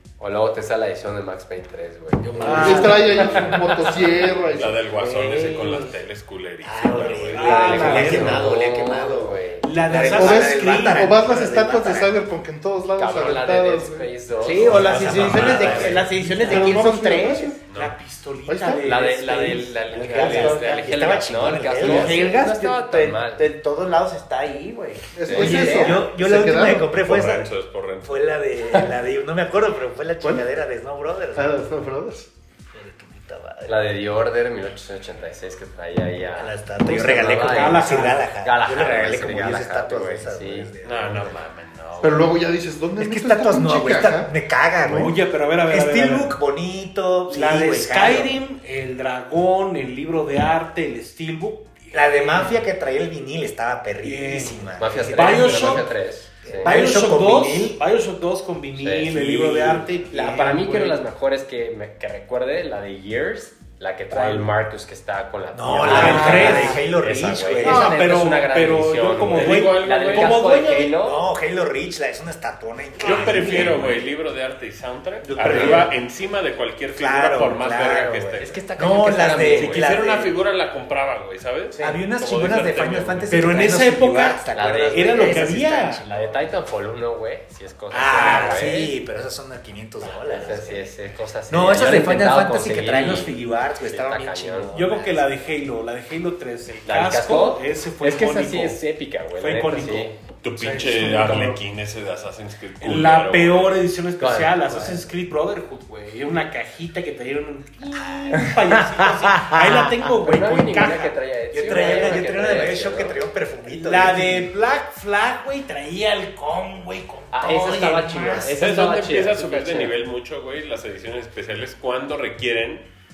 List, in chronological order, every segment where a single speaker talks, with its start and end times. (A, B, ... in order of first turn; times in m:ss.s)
0:00.2-0:04.0 A
0:02.4-0:03.1 B
0:02.4-0:03.2 C
0:02.4-0:04.8 D
0:04.5-0:07.8 E
0:05.0-0:06.0 C
0:06.6-0:12.2 F
0:07.3-0:08.4 B
0:07.4-0:09.7 A
0:07.5-0:08.2 C
0:09.6-0:11.1 B
0:10.1-0:14.1 D
0:13.0-0:16.1 A
0:14.4-0:17.6 C
0:14.6-0:16.7 F
0:15.2-0:15.7 E
0:15.7-0:16.6 B
0:16.4-0:17.6 D
0:17.7-0:18.0 E
0:17.7-0:20.8 B
0:18.4-0:18.9 D
0:18.8-0:23.5 A
0:20.0-0:22.3 F
0:20.0-0:20.6 C
0:21.8-0:26.0 C
0:25.1-0:27.0 D
0:25.2-0:25.7 A
0:25.4-0:27.5 F
0:25.6-0:25.8 B
0:26.9-0:28.4 E
0:28.0-0:31.6 F
0:31.4-0:32.3 D
0:32.7-0:34.0 F
0:33.7-0:40.7 A
0:36.3-0:41.4 F
0:37.4-0:38.4 B
0:40.8-0:42.3 E
0:42.0-0:45.1 D
0:43.0-0:45.1 F
0:44.9-0:46.4 B
0:45.7-0:48.4 F
0:47.3-0:52.7 B
0:51.9-0:55.9 F
0:54.0-0:56.0 B
0:54.8-0:56.7 A
0:56.4-0:57.8 F
0:56.6-1:01.1 B
0:58.8-0:59.3 A
0:59.2-1:00.0 F
1:00.1-1:11.3 A
1:04.1-1:04.5 B
1:05.5-1:08.0 F
1:05.8-1:06.9 B
1:05.8-1:06.8 C
1:07.6-1:11.0 B
1:07.7-1:08.0 C
1:09.3-1:10.4 E
1:10.5-1:14.0 F
1:13.0-1:18.6 E
1:13.0-1:13.6 B
1:15.2-1:15.9 D
1:15.5-1:15.9 A
1:15.5-1:15.8 F
1:16.9-1:20.4 F
1:18.5-1:20.0 A
1:19.5-1:23.6 E
1:21.7-1:22.0 C
1:21.8-1:26.5 F
1:23.3-1:26.0 B
1:24.5-1:29.0 A
1:27.9-1:35.2 F
1:27.9-1:28.6 B
1:30.2-1:34.9 A
1:34.7-1:38.8 B
1:36.8-1:40.2 A
1:39.3-1:41.6 B
1:40.4-1:43.9 E
1:41.0-1:41.6 A
1:42.8-1:52.6 B
1:44.2-1:45.1 A
1:47.9-1:48.6 F
1:48.8-1:50.0 C
1:50.1-1:53.2 A
1:50.8-1:54.5 F
1:53.6-1:58.5 B
1:57.3-2:00.0 A
1:58.6-2:02.9 E